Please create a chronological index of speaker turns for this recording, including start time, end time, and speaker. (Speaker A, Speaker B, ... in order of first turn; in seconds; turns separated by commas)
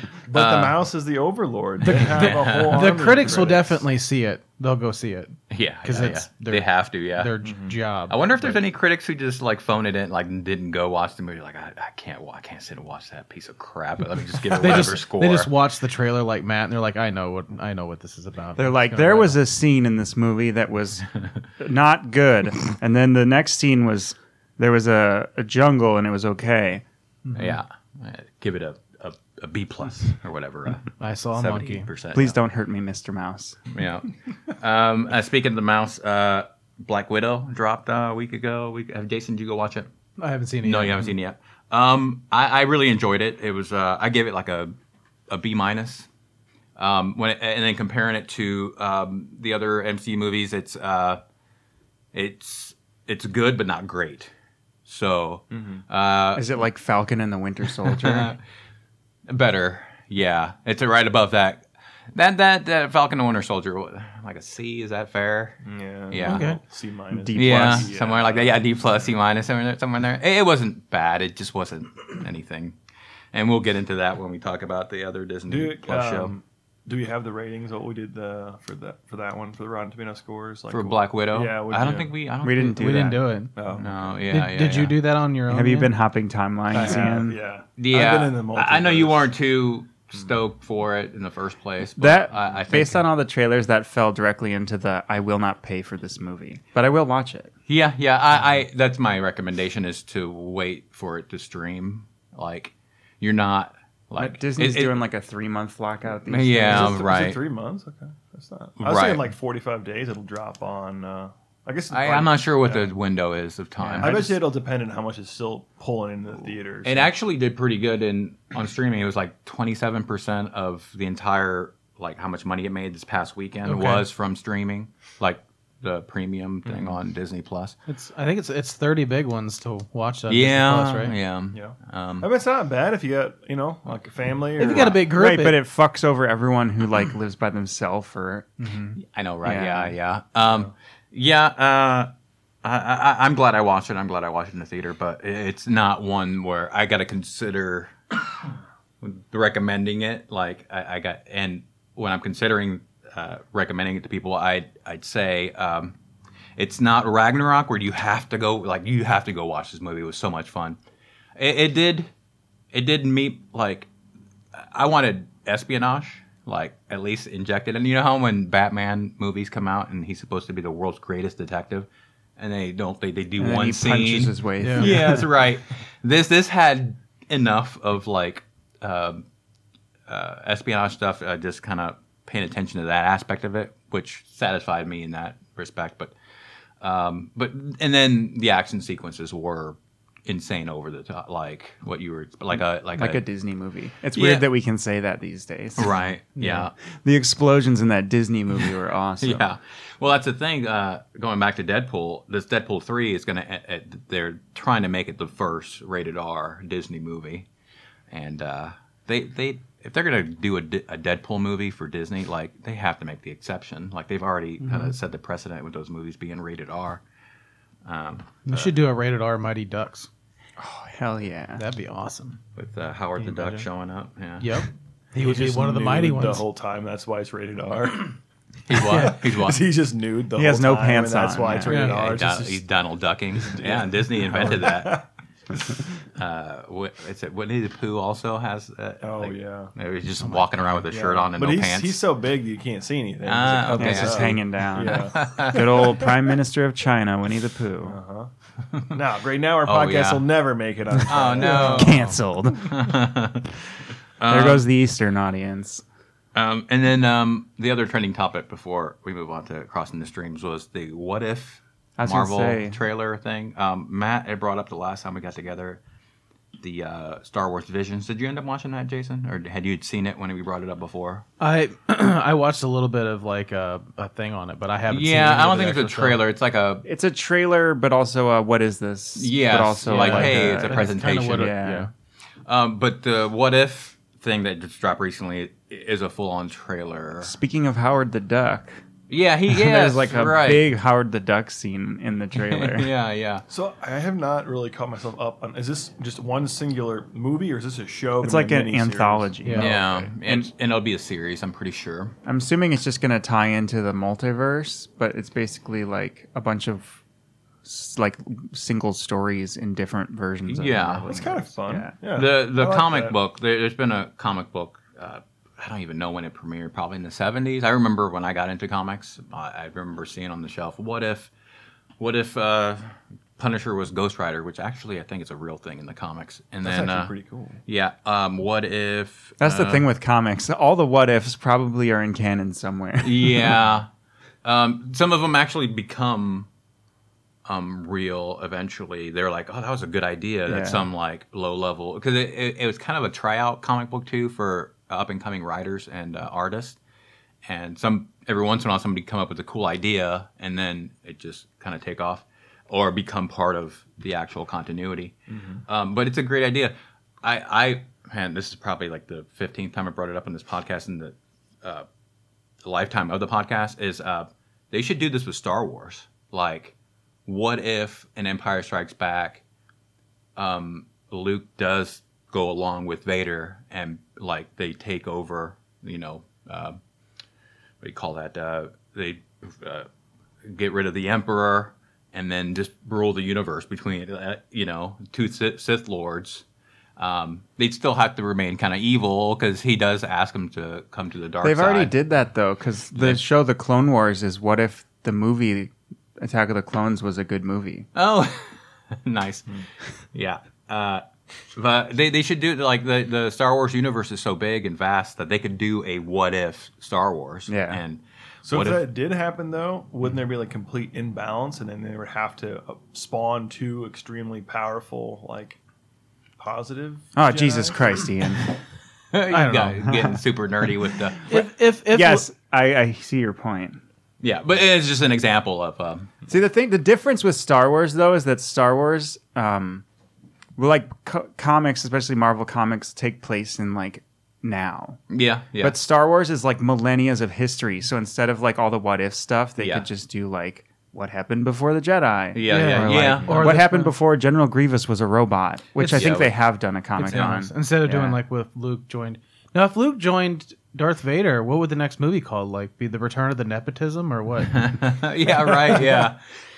Speaker A: 0.2-0.8, Speaker B: 0.3-3.9, Speaker C: 1.8-8.6, Speaker A: 1.9-3.0, Speaker A: 5.5-7.3, Speaker B: 7.4-7.8, Speaker A: 8.1-15.5, Speaker C: 14.5-19.4, Speaker D: 18.6-26.8, Speaker C: 27.3-27.6, Speaker A: 27.3-32.4, Speaker C: 31.0-31.9, Speaker D: 32.1-33.6, Speaker A: 33.7-39.9, Speaker C: 40.2-41.1, Speaker A: 40.6-44.7, Speaker A: 45.3-46.1, Speaker A: 46.8-51.2, Speaker A: 52.1-54.3, Speaker A: 54.9-56.6, Speaker B: 55.5-55.8, Speaker D: 56.3-58.3, Speaker A: 57.8-58.4, Speaker A: 59.3-66.5, Speaker B: 65.7-69.1, Speaker C: 66.2-66.6, Speaker D: 67.1-67.9, Speaker A: 67.3-72.8, Speaker A: 73.3-76.3, Speaker B: 75.5-82.1, Speaker A: 80.7-83.1, Speaker D: 82.4-83.2, Speaker C: 82.5-83.7, Speaker B: 83.6-84.2, Speaker A: 83.7-85.0, Speaker C: 84.3-85.9, Speaker D: 85.5-87.4, Speaker B: 86.7-89.3, Speaker A: 87.8-93.0, Speaker D: 92.0-97.5, Speaker A: 97.7-105.0, Speaker D: 104.2-107.0, Speaker A: 106.3-107.4, Speaker B: 106.7-112.9, Speaker A: 108.8-109.3, Speaker A: 111.9-114.4, Speaker D: 113.8-114.2, Speaker B: 114.0-117.1, Speaker A: 116.8-127.8, Speaker C: 123.7-124.1, Speaker C: 127.9-131.2, Speaker A: 130.3-132.3, Speaker B: 131.5-135.0, Speaker C: 134.6-135.6, Speaker A: 134.7-135.0, Speaker D: 135.1-139.9, Speaker A: 139.0-142.1, Speaker A: 142.6-148.4, Speaker A: 149.0-156.0, Speaker A: 156.6-160.8, Speaker A: 161.4-162.1, Speaker A: 162.7-163.9, Speaker A: 164.5-179.2, Speaker D: 173.4-175.3, Speaker C: 174.6-175.1, Speaker A: 180.1-186.2, Speaker A: 186.8-193.2, Speaker D: 193.0-199.6, Speaker A: 194.2-194.5, Speaker A: 195.8-196.7, Speaker A: 199.2-207.5, Speaker A: 208.1-217.0, Speaker A: 217.8-218.7, Speaker C: 218.5-220.1, Speaker D: 220.6-221.6, Speaker C: 221.6-222.4, Speaker A: 222.6-224.7, Speaker B: 223.2-223.6, Speaker C: 224.4-226.4, Speaker B: 225.2-228.2, Speaker A: 228.7-229.6, Speaker B: 228.7-232.6, Speaker C: 228.9-229.2, Speaker D: 230.3-231.7, Speaker C: 231.6-232.2, Speaker A: 231.7-235.0, Speaker B: 233.3-235.1, Speaker A: 236.2-242.0, Speaker B: 239.0-239.7, Speaker C: 240.2-240.5, Speaker B: 240.9-245.8, Speaker A: 243.2-245.9, Speaker D: 243.8-248.0, Speaker B: 247.8-248.3, Speaker B: 248.9-251.9, Speaker A: 249.6-250.3, Speaker A: 251.1-253.6, Speaker C: 251.4-251.8, Speaker D: 251.6-252.8, Speaker A: 254.2-254.7, Speaker D: 254.3-255.8, Speaker A: 256.4-265.8, Speaker D: 262.0-262.8, Speaker A: 266.6-271.2, Speaker C: 271.4-276.2, Speaker A: 274.9-276.9, Speaker D: 276.9-281.9, Speaker A: 279.2-281.5, Speaker C: 279.9-281.9, Speaker A: 282.5-287.3, Speaker D: 287.2-288.8, Speaker A: 289.1-290.7, Speaker D: 289.5-292.9, Speaker A: 292.4-293.4, Speaker B: 293.5-300.1, Speaker D: 298.2-300.5, Speaker C: 299.4-299.8, Speaker A: 299.6-302.2, Speaker D: 302.2-307.0, Speaker D: 307.6-311.9, Speaker A: 310.5-311.2, Speaker B: 311.1-313.1, Speaker A: 312.1-321.3, Speaker A: 322.0-327.1, Speaker B: 326.6-327.6, Speaker A: 327.7-329.9, Speaker D: 329.4-333.6, Speaker A: 333.0-333.9, Speaker A: 334.4-336.5, Speaker A: 337.5-346.8, Speaker D: 340.5-340.9, Speaker A: 347.5-355.1, Speaker B: 355.3-355.6, Speaker A: 355.7-361.9, Speaker A: 362.6-366.8, Speaker A: 367.3-369.4, Speaker A: 370.4-376.8, Speaker A: 377.8-379.9, Speaker A: 380.4-386.4, Speaker A: 387.0-391.9, Speaker D: 391.4-397.9, Speaker A: 392.9-393.2, Speaker A: 397.9-399.6, Speaker A: 400.1-408.9, Speaker D: 407.5-407.8, Speaker B: 408.5-415.6, Speaker B: 416.4-418.1, Speaker D: 417.1-418.6, Speaker A: 419.1-421.2, Speaker C: 419.3-420.1, Speaker C: 421.3-422.3, Speaker D: 421.3-423.8, Speaker A: 424.2-426.1, Speaker D: 426.3-429.8, Speaker D: 430.6-435.0, Speaker A: 435.1-435.8, Speaker D: 435.6-448.2, Speaker A: 439.6-439.9, Speaker A: 442.3-443.4, Speaker C: 442.5-443.9, Speaker C: 445.8-446.2, Speaker A: 445.9-446.3, Speaker C: 447.0-454.8, Speaker A: 454.5-456.4